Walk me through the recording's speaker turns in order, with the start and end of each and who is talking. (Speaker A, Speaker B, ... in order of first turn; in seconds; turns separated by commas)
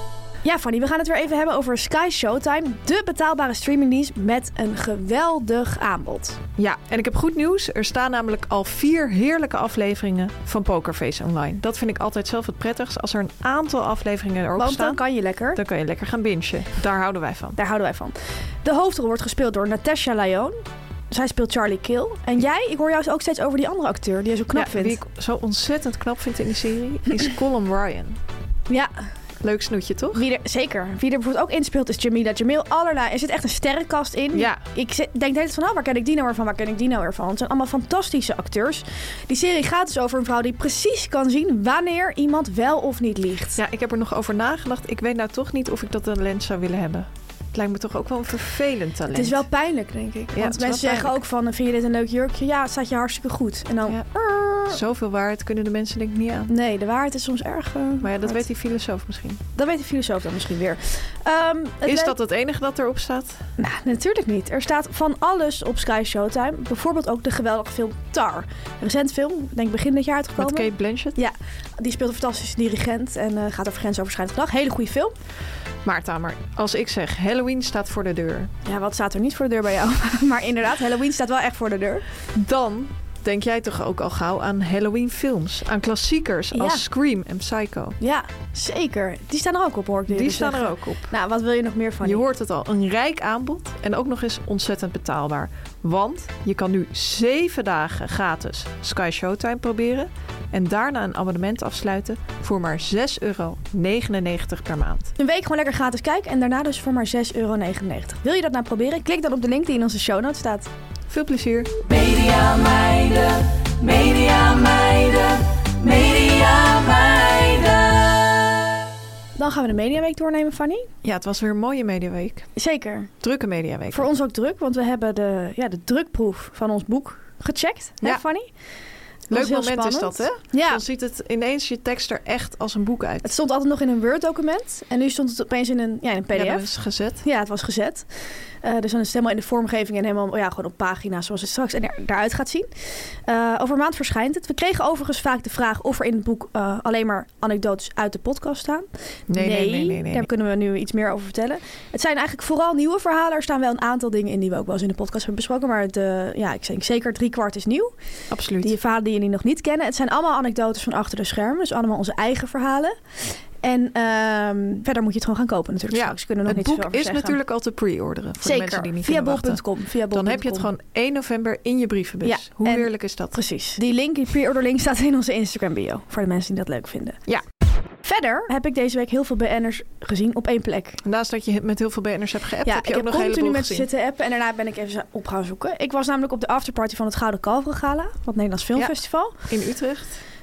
Speaker A: 0.4-6.4, Speaker B: 6.6-15.0, Speaker A: 14.6-15.6, Speaker B: 15.5-17.6, Speaker A: 17.6-20.6, Speaker A: 21.1-25.0, Speaker B: 24.5-28.2, Speaker B: 29.4-30.2, Speaker A: 30.1-43.6, Speaker B: 34.3-34.6, Speaker B: 43.6-49.5, Speaker A: 49.1-54.8, Speaker B: 50.3-51.2, Speaker B: 54.7-56.5, Speaker A: 56.5-58.4, Speaker B: 58.0-59.4, Speaker A: 59.6-62.2, Speaker B: 61.9-63.4, Speaker A: 63.6-75.2, Speaker B: 70.4-71.2, Speaker B: 75.8-78.5, Speaker A: 78.7-82.1, Speaker B: 82.3-88.0, Speaker A: 86.5-86.8, Speaker A: 88.0-92.2, Speaker B: 90.1-91.1, Speaker B: 92.0-105.1, Speaker A: 105.2-110.7, Speaker B: 111.1-111.8, Speaker C: 111.8-118.4, Speaker A: 119.4-120.9, Speaker B: 121.0-122.5, Speaker A: 122.6-123.1, Speaker B: 123.2-124.1, Speaker A: 123.9-128.5, Speaker B: 129.3-133.3, Speaker A: 129.3-130.8, Speaker A: 133.2-138.1, Speaker B: 136.3-137.2, Speaker A: 138.6-157.9, Speaker B: 149.3-150.3, Speaker B: 158.3-158.7, Speaker A: 158.6-167.4, Speaker B: 165.9-173.4, Speaker A: 168.4-170.7, Speaker A: 172.2-177.2, Speaker A: 178.1-181.0, Speaker B: 181.0-183.9, Speaker A: 182.7-189.4, Speaker B: 188.8-190.2